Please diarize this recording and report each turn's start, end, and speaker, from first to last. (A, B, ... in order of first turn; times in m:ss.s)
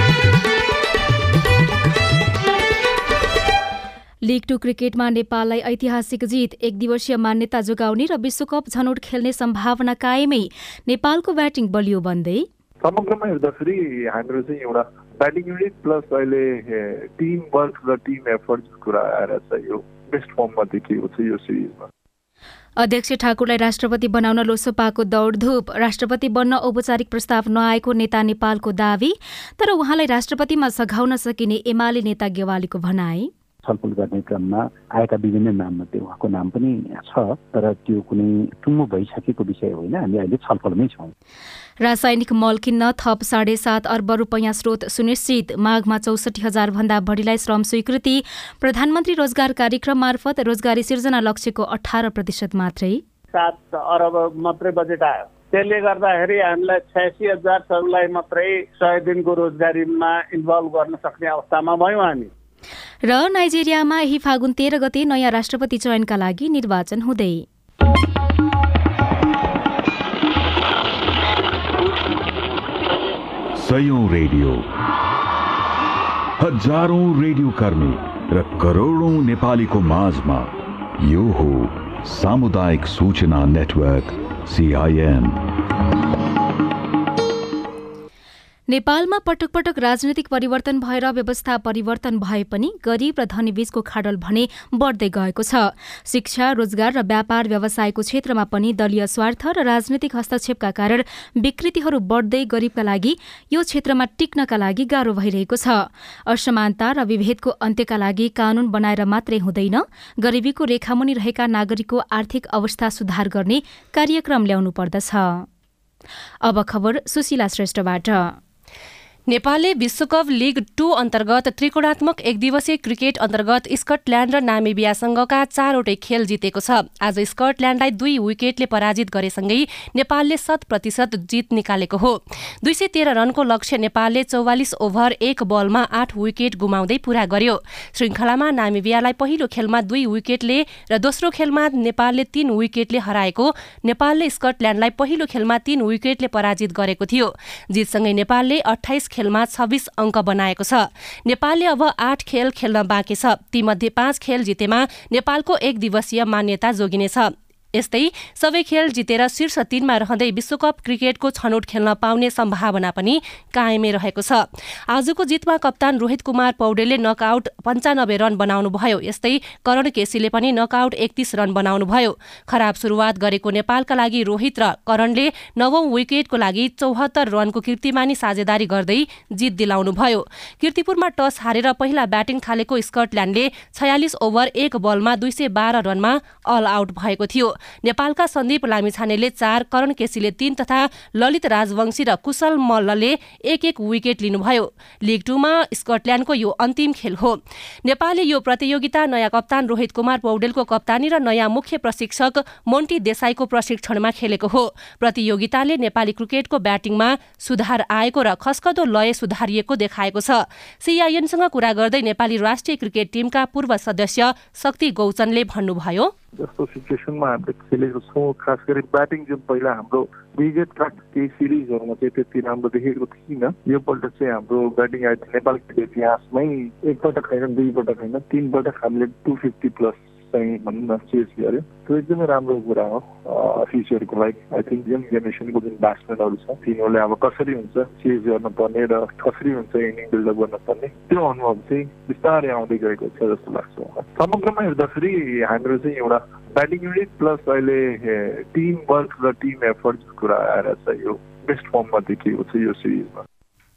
0:04.2-0:12.5 A
0:12.8-0:21.9 B
0:22.8-0:33.3 A
0:33.6-0:41.1 C
0:41.8-0:53.0 A
0:53.3-1:02.3 D
1:03.0-1:07.4 A
1:13.5-1:14.6 E
1:16.4-1:25.4 E
1:28.7-1:55.4 A
1:56.4-1:58.4 A
1:59.3-3:36.1 F
3:36.3-4:13.2 B